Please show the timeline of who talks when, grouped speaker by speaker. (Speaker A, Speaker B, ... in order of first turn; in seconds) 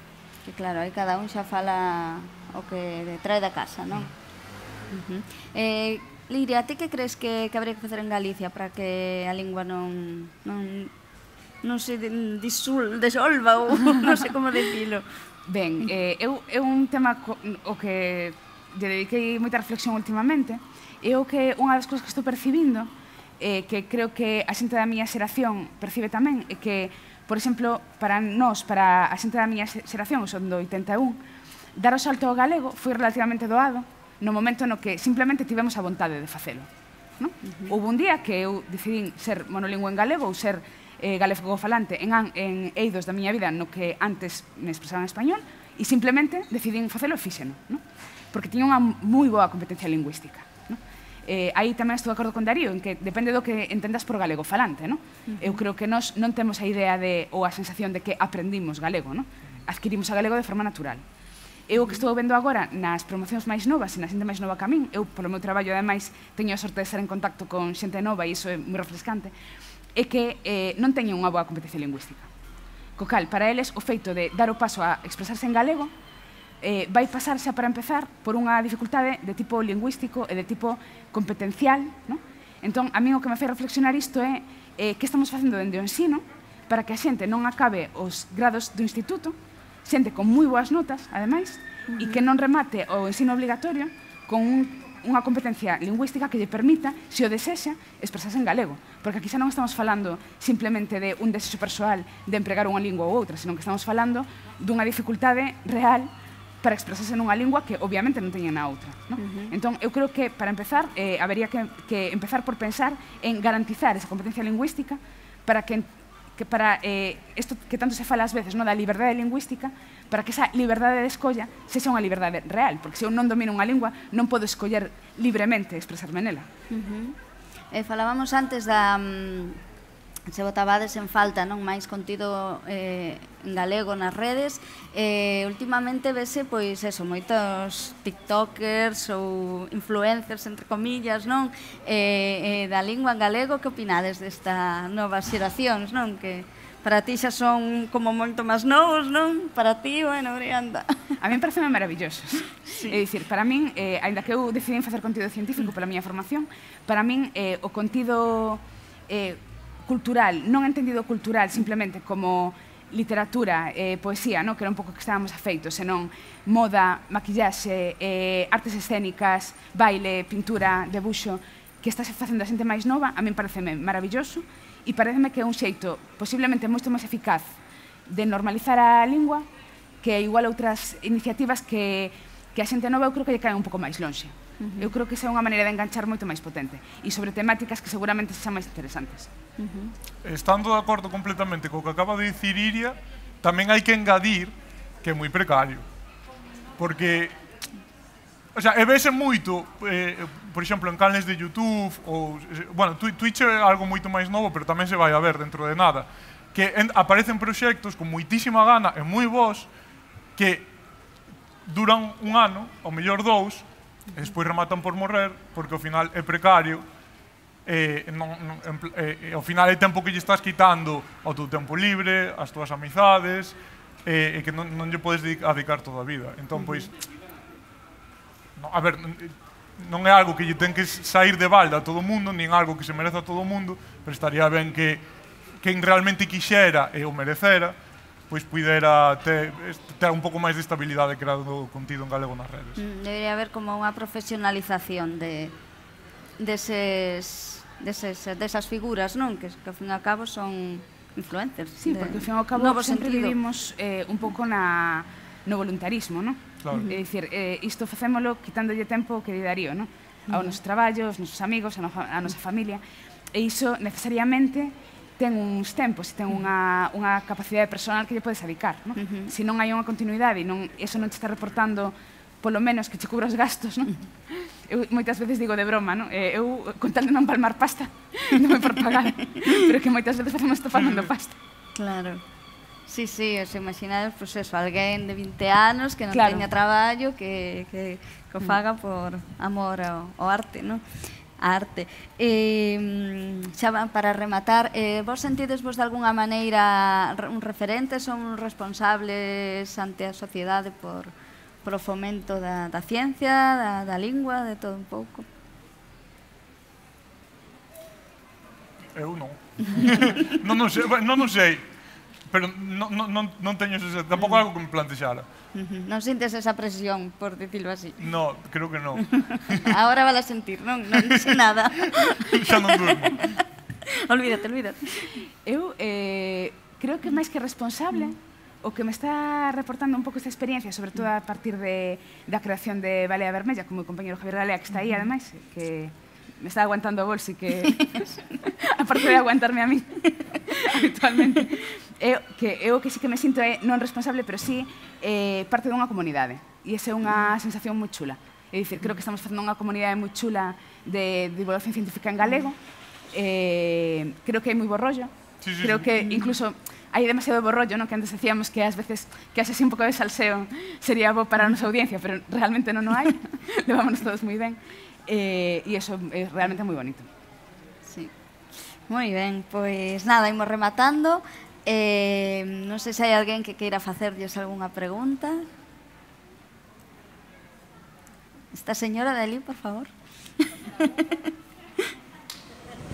Speaker A: 0.4-4.1, 4.9-10.9, 11.6-15.0, 37.4-37.7, 55.3-55.6, 91.9-92.2, 109.2-109.5, 126.7-127.2, 127.7-129.6, 130.3-151.2, 152.7-153.0, 184.6-184.9, 189.6-189.9, 226.5-226.9, 242.8-245.5, 246.4-253.3, 256.7-257.0, 269.0-269.3, 281.8-282.2, 282.9-290.8, 291.4-301.1, 301.6-305.2, 309.6-310.4, 315.5-318.0, 319.0-325.1, 337.8-338.1, 356.0-356.3, 367.9-368.1, 368.9-375.4, 378.5-379.9, 380.8-381.2
Speaker B: 15.5-22.9, 23.4-31.2, 31.8-36.7, 37.2-61.0, 61.7-69.3, 69.9-72.3, 73.0-75.9, 76.6-106.1, 106.6-126.5, 151.2-177.5, 178.1-179.5, 180.0-189.3, 251.8-262.8, 263.3-281.4, 286.1-286.5, 325.4-352.6, 353.1-367.1
Speaker C: 190.2-195.8, 196.8-197.3, 198.5-209.7, 210.3-210.7, 211.7-216.8, 217.7-226.9, 228.6-235.0, 235.6-237.7, 238.3-242.8, 280.8-281.1, 308.9-311.7, 312.3-315.3, 318.0-319.7, 321.0-323.2, 355.4-355.9